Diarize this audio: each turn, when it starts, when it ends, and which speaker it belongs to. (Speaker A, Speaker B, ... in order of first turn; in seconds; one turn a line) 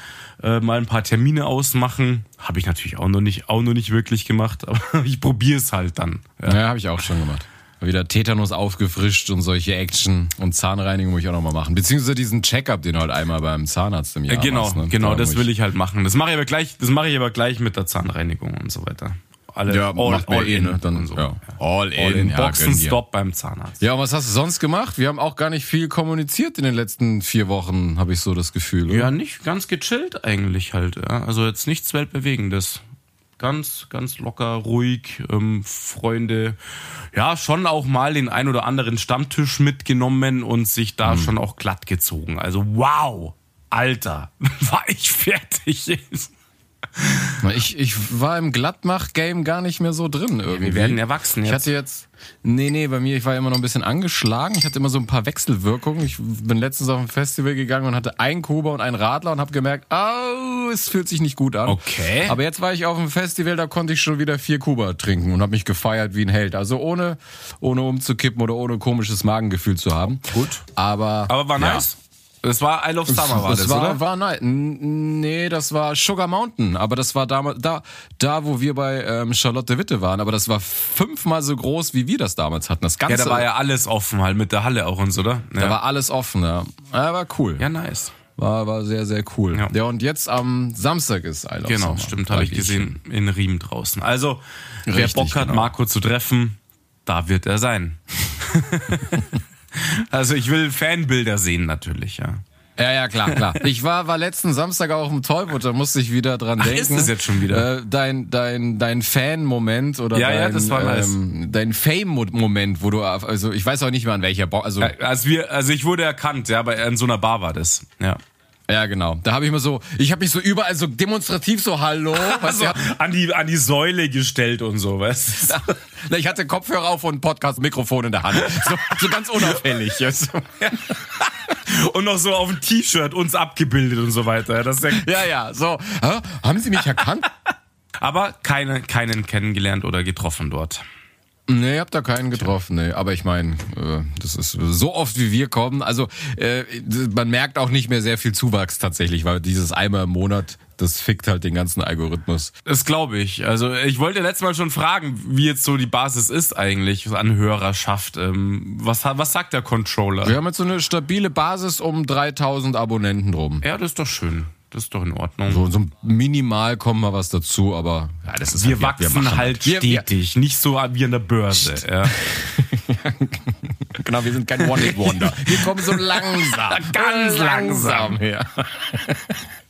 Speaker A: 0.4-6.6
Speaker B: 6.5-15.5
Speaker A: 14.3-23.8
Speaker B: 19.7-23.0
Speaker B: 23.8-29.1
Speaker A: 28.9-32.8
Speaker A: 33.4-36.6
Speaker A: 37.1-46.3
Speaker B: 41.0-41.3
Speaker A: 47.0-47.4
Speaker B: 47.4-71.9
Speaker A: 50.5-51.7
Speaker A: 61.6-62.4
Speaker A: 70.3-70.6
Speaker A: 71.3-74.0
Speaker B: 73.1-83.5
Speaker A: 83.1-85.8
Speaker B: 85.6-87.7
Speaker A: 87.6-88.2
Speaker B: 88.4-93.0
Speaker A: 91.7-102.4
Speaker B: 94.9-95.7
Speaker B: 102.8-114.9
Speaker A: 103.3-103.5
Speaker A: 106.6-107.7
Speaker A: 110.1-111.2
Speaker A: 114.8-118.2
Speaker B: 118.7-122.8
Speaker A: 122.1-125.8
Speaker B: 125.5-130.5
Speaker A: 128.4-129.0
Speaker A: 130.6-135.2
Speaker B: 134.9-137.3
Speaker A: 138.0-140.8
Speaker B: 141.5-152.5
Speaker A: 152.7-160.4
Speaker B: 160.2-163.6
Speaker A: 163.6-165.7
Speaker B: 165.5-170.1
Speaker A: 168.5-172.2
Speaker B: 172.1-179.4
Speaker A: 174.6-178.2